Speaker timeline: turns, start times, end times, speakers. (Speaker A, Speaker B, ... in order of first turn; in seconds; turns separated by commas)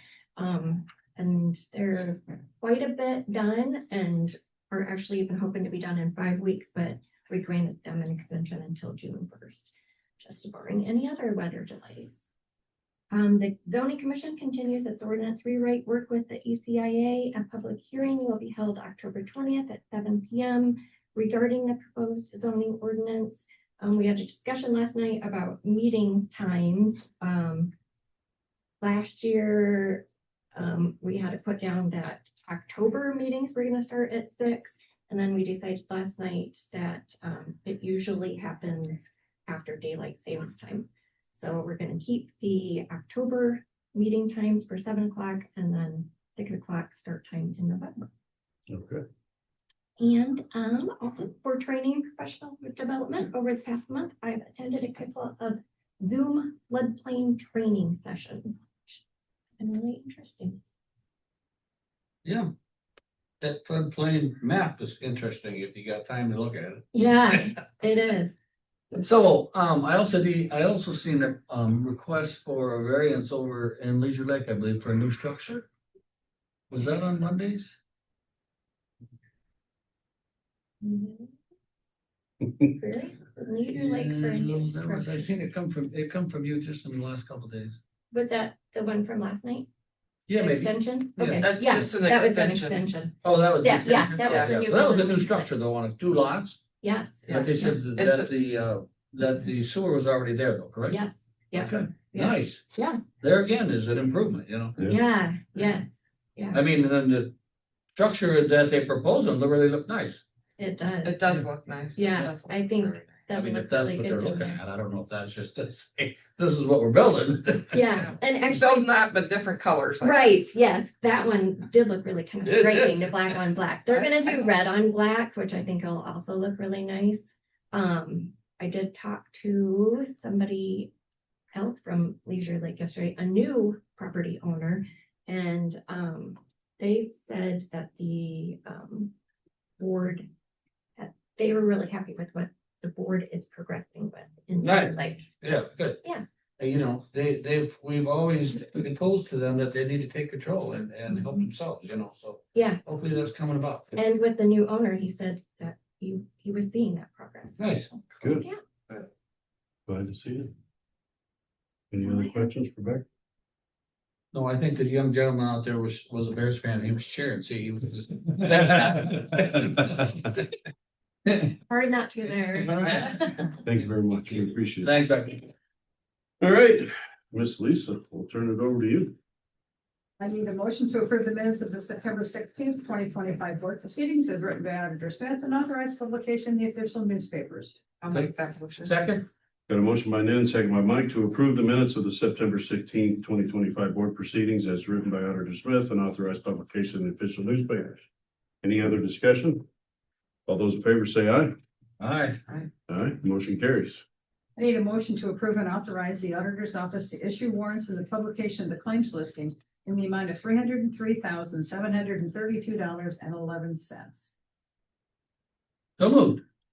Speaker A: 0.4-12.2, Speaker A: 13.1-27.7, Speaker A: 28.8-48.1, Speaker B: 48.7-49.0, Speaker A: 50.0-59.0, Speaker A: 59.6-60.6, Speaker C: 63.4-67.4, Speaker A: 66.9-68.3, Speaker C: 68.9-75.7, Speaker C: 76.7-77.8, Speaker A: 80.8-81.3, Speaker A: 82.6-85.3, Speaker C: 83.7-87.8, Speaker A: 88.1-89.7, Speaker C: 90.3-91.6, Speaker A: 90.4-95.5, Speaker D: 91.2-92.8, Speaker C: 93.2-96.6, Speaker D: 93.8-94.6, Speaker A: 96.8-97.8, Speaker C: 97.3-101.0, Speaker D: 97.3-98.3, Speaker A: 100.9-103.0, Speaker C: 101.5-102.6, Speaker C: 103.2-104.8, Speaker A: 104.8-106.6, Speaker C: 106.5-107.3, Speaker C: 108.0-110.2, Speaker A: 110.6-111.4, Speaker D: 111.0-113.1, Speaker A: 112.0-114.6, Speaker C: 113.3-118.0, Speaker A: 117.7-118.9, Speaker D: 118.2-120.4, Speaker A: 120.0-130.9, Speaker C: 122.5-123.0, Speaker A: 131.5-139.1, Speaker A: 139.8-140.3, Speaker A: 141.0-145.3, Speaker C: 144.6-146.0, Speaker C: 146.6-154.0, Speaker A: 152.6-152.8, Speaker A: 154.0-158.6, Speaker C: 157.6-157.9, Speaker B: 159.9-160.5, Speaker B: 161.9-163.0, Speaker A: 162.0-162.5, Speaker C: 164.3-170.4, Speaker A: 171.7-173.5, Speaker C: 172.6-173.3, Speaker B: 173.6-175.0, Speaker C: 174.8-175.5, Speaker B: 176.4-179.2, Speaker E: 180.2-187.9, Speaker D: 188.0-189.0, Speaker C: 188.8-189.3, Speaker B: 189.7-198.0, Speaker B: 198.6-199.6, Speaker B: 200.5-201.5, Speaker C: 202.0-202.4, Speaker B: 202.9-204.0, Speaker E: 204.6-214.3, Speaker C: 216.0-216.4